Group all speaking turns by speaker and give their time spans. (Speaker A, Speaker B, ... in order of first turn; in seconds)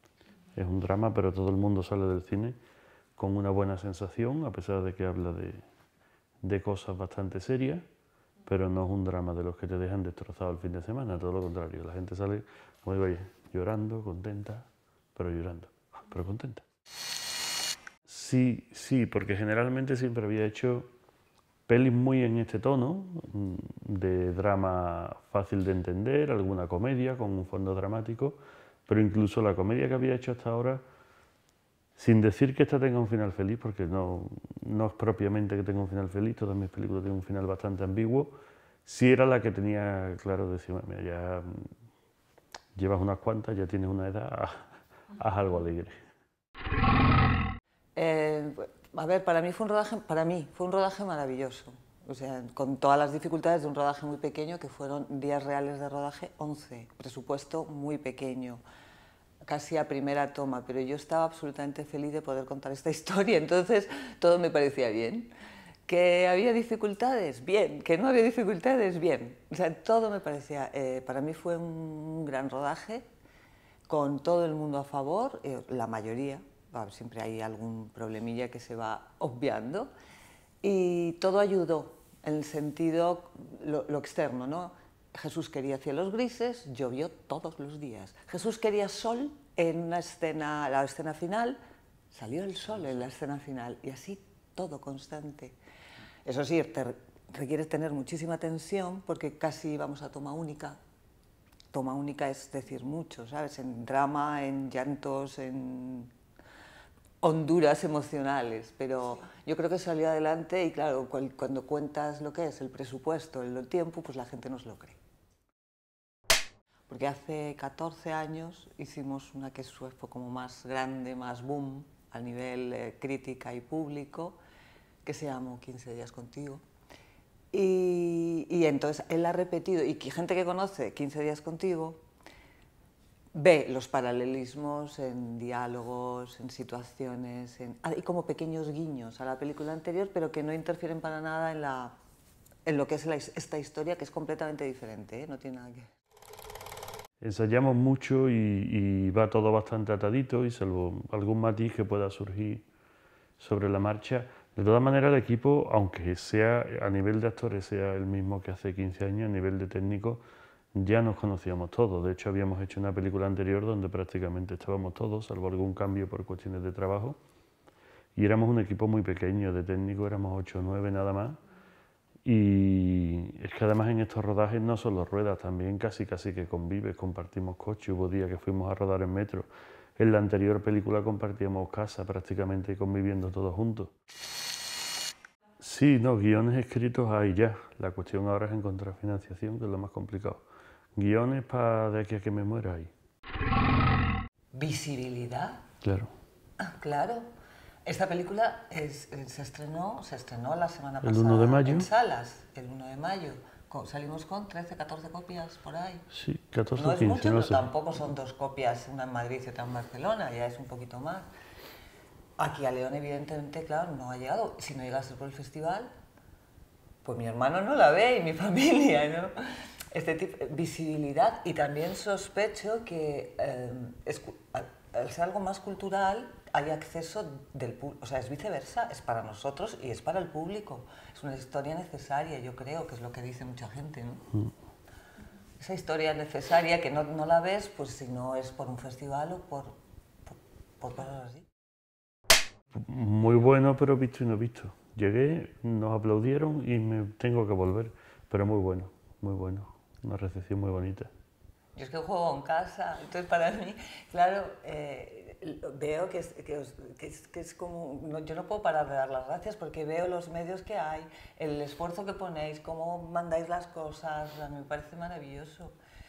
Speaker A: 0.6-2.5, 3.2-5.6, 6.4-7.8, 8.5-16.6, 18.1-20.9, 21.7-30.8, 32.0-38.3, 38.9-41.7, 42.8-45.9, 147.2-152.7, 153.4-160.2, 160.8-167.2, 168.2-171.4, 172.2-183.9, 185.6-190.4, 191.0-192.9, 195.8-196.1, 201.0-201.9, 206.1-207.6, 242.8-251.1
Speaker B: 48.0-58.6, 59.4-65.3, 65.9-73.0, 73.9-79.9, 80.6-91.6, 92.1-95.5, 96.2-100.8, 101.7-106.1, 107.2-115.0, 116.9-124.4, 125.0-126.6, 127.5-132.0, 133.3-141.9, 142.7-145.9, 194.5-195.6, 196.6-197.2, 197.9-206.1, 206.8-211.3, 212.4-215.9, 217.0-219.3, 219.9-234.3, 235.6-239.8, 240.3-241.5, 251.8-265.7